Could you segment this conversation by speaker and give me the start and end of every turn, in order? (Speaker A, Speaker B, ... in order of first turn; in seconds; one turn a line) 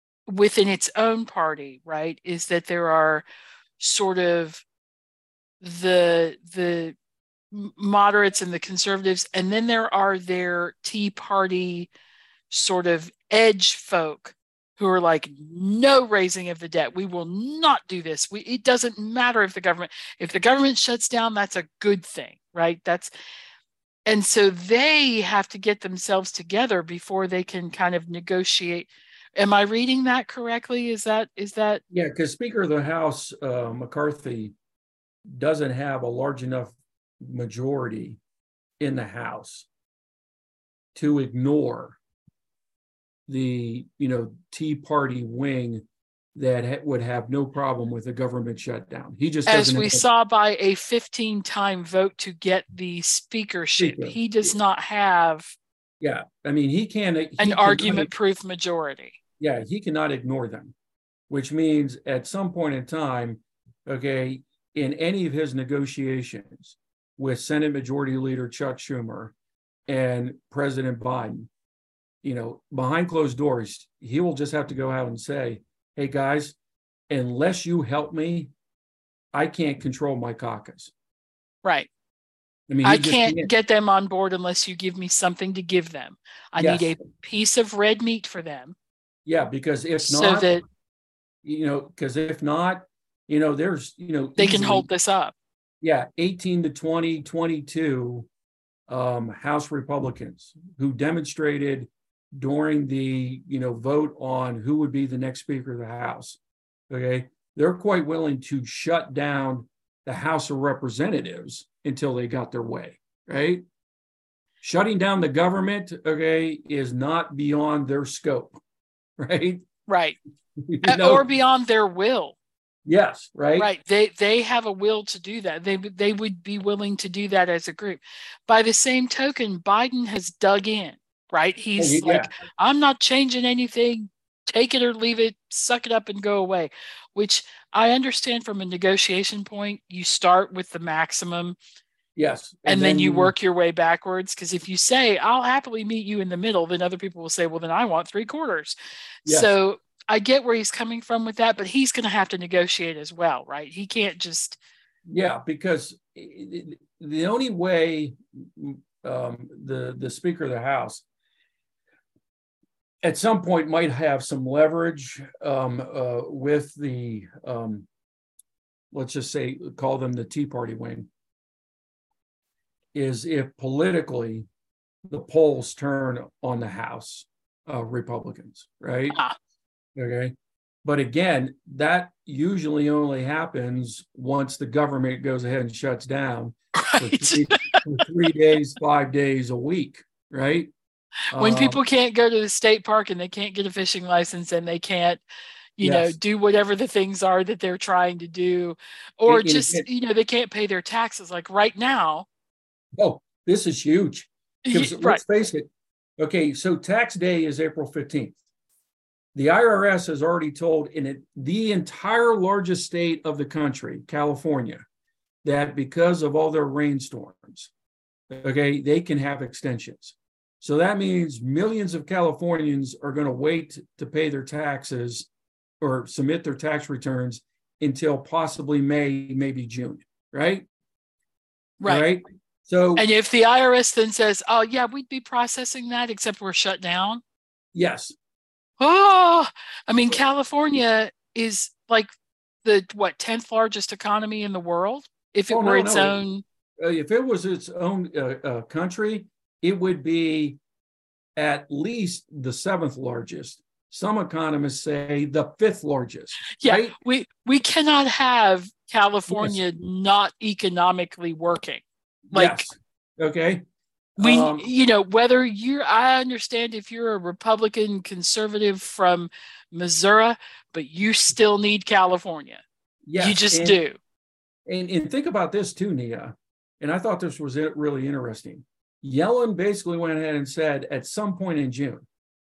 Speaker A: 0.3-3.2
Speaker A: 3.8-4.6
Speaker A: 5.6-7.0
Speaker A: 7.5-11.9
Speaker A: 12.5-23.1
Speaker A: 24.1-31.8
Speaker B: 31.9-34.5
Speaker B: 35.3-38.2
Speaker B: 38.8-39.7
Speaker B: 41.0-42.0
Speaker B: 43.3-50.0
Speaker A: 49.5-55.5
Speaker B: 53.8-54.5
Speaker B: 56.0-58.1
Speaker A: 57.4-59.2
Speaker B: 59.4-60.7
Speaker B: 61.3-69.3
Speaker B: 69.9-71.5
Speaker B: 72.2-76.6
Speaker B: 77.1-78.5
Speaker B: 79.3-80.9
Speaker A: 81.6-81.9
Speaker B: 82.7-83.5
Speaker A: 82.8-88.8
Speaker B: 86.6-87.0
Speaker B: 89.2-90.5
Speaker A: 90.0-90.6
Speaker B: 91.4-94.9
Speaker A: 94.4-95.3
Speaker B: 95.8-98.3
Speaker B: 98.9-106.4
Speaker B: 106.9-113.6
Speaker B: 114.6-118.6
Speaker B: 119.2-119.7
Speaker A: 119.9-120.2
Speaker B: 120.6-121.2
Speaker A: 120.8-122.4
Speaker B: 122.9-123.7
Speaker A: 123.6-141.6
Speaker B: 131.8-132.3
Speaker B: 142.2-143.3
Speaker A: 142.7-154.6
Speaker B: 149.2-149.5
Speaker B: 155.1-161.0
Speaker B: 163.0-167.9
Speaker B: 168.9-171.1
Speaker B: 172.9-174.5
Speaker B: 175.1-179.2
Speaker B: 180.0-180.3
Speaker B: 180.8-190.7
Speaker A: 186.8-187.8
Speaker B: 191.3-191.8
Speaker A: 191.3-195.2
Speaker A: 195.8-202.3
Speaker B: 195.8-196.2
Speaker B: 199.3-199.9
Speaker B: 203.0-208.4
Speaker A: 204.7-205.2
Speaker B: 209.3-214.8
Speaker B: 215.4-217.7
Speaker B: 218.3-225.3
Speaker B: 225.8-230.7
Speaker A: 231.8-232.1
Speaker B: 231.8-233.1
Speaker A: 233.0-237.2
Speaker B: 237.7-238.2
Speaker A: 238.8-242.1
Speaker A: 242.7-246.4
Speaker B: 245.5-246.2
Speaker B: 246.8-250.6
Speaker B: 251.4-256.9
Speaker A: 256.6-262.7
Speaker B: 259.3-259.6
Speaker B: 262.3-263.6
Speaker B: 264.2-264.7
Speaker A: 264.2-272.6
Speaker B: 273.1-273.8
Speaker A: 273.2-274.0
Speaker B: 274.7-282.1